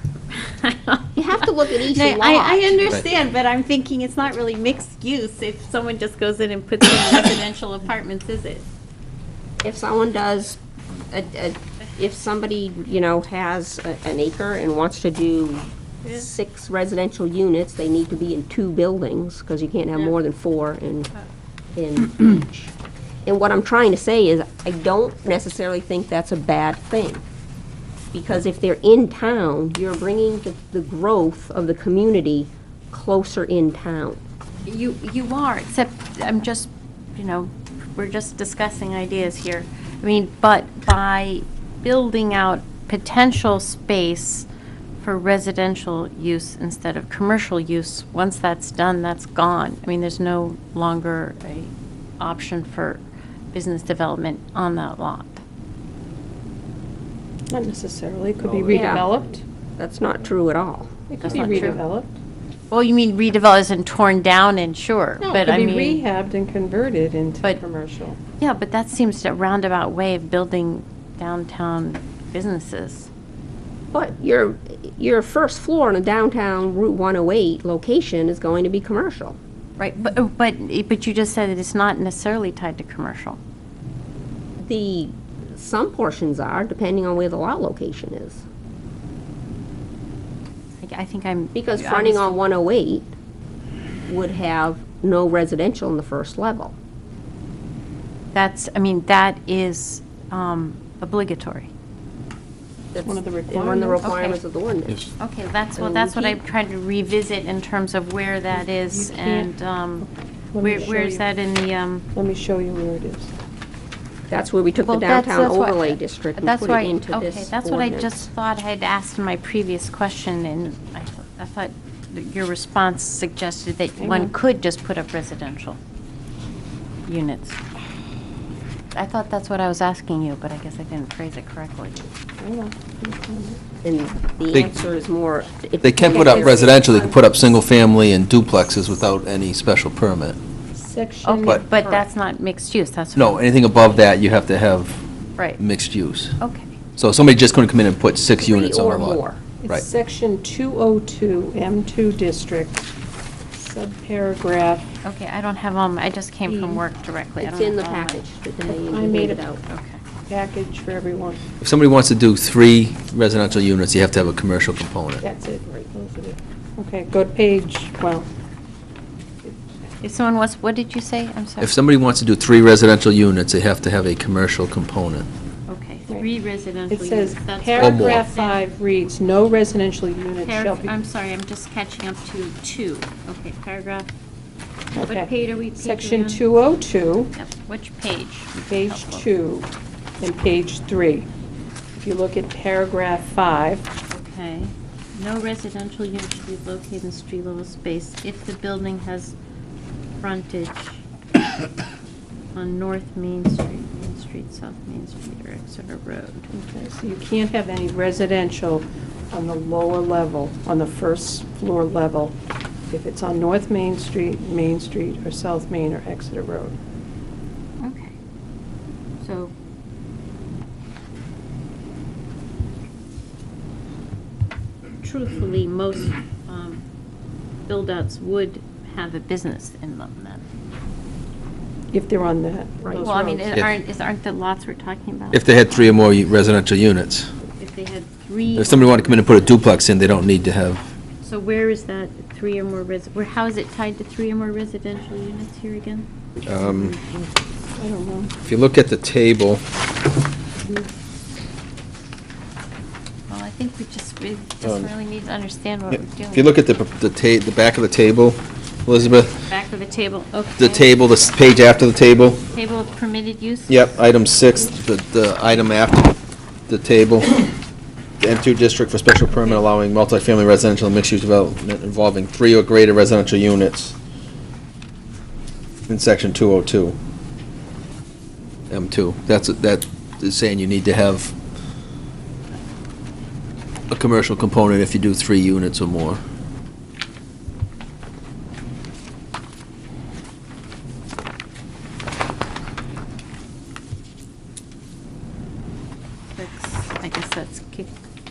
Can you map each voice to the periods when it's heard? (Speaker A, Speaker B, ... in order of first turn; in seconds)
Speaker A: 0.3-8.7, 34.6-44.5, 45.0-55.4, 61.2-61.8, 62.7-66.0, 68.4-73.1, 79.8-83.4, 90.8-92.4, 98.3-101.7, 104.0-104.4, 105.0-110.1, 110.6-112.1, 114.8-125.8, 127.0-127.6, 128.9-132.1, 141.2-143.5, 146.4-146.8, 155.0-158.2, 159.7-160.0, 170.0-171.7, 175.7-178.6, 180.4-184.1, 185.1-186.4, 187.3-189.3, 194.1-199.3, 200.2-201.0, 202.5-206.5, 217.8-218.1, 219.2-219.5, 225.0-226.8, 227.7-230.4, 233.0-235.4, 237.6-239.7, 241.2-246.1, 253.3-256.5, 259.3-260.9, 262.5-263.9, 269.3-269.6, 296.3-297.9
Speaker B: 1.1-3.0, 9.6-21.1, 21.7-22.7, 23.2-27.2, 28.1-34.2, 58.7-59.0, 59.8-61.0, 73.9-79.4, 84.6-88.4, 91.5-93.1, 94.1-96.7, 102.9-105.0, 105.8-106.4, 114.3-118.2, 133.8-137.1, 141.8-142.0, 148.4-149.4, 157.4-159.6
Speaker C: 57.5-59.4, 61.1-62.1, 65.2-68.2, 103.0-104.1, 108.7-111.3, 112.1-113.3, 124.0-124.3, 132.4-133.6, 140.7-141.6, 149.6-152.9, 153.5-154.9, 156.4-156.8, 158.7-159.4, 160.3-161.4, 165.2-168.3, 176.9-180.9, 184.9-187.3, 188.6-189.7, 190.2-191.3, 191.9-193.9, 206.5-212.3, 212.9-216.8, 231.9-233.5, 247.8-248.3
Speaker D: 135.8-140.4, 143.2-145.0, 145.6-146.3, 146.9-149.8, 161.6-165.2, 171.6-175.3, 177.8-178.2, 235.3-237.3, 238.5-240.9, 246.4-246.9, 248.4-249.6, 254.6-254.9, 255.9-259.3, 260.6-262.4, 263.7-266.1, 266.7-267.4, 268.2-273.9, 275.9-277.0, 278.7-281.3, 283.9-286.2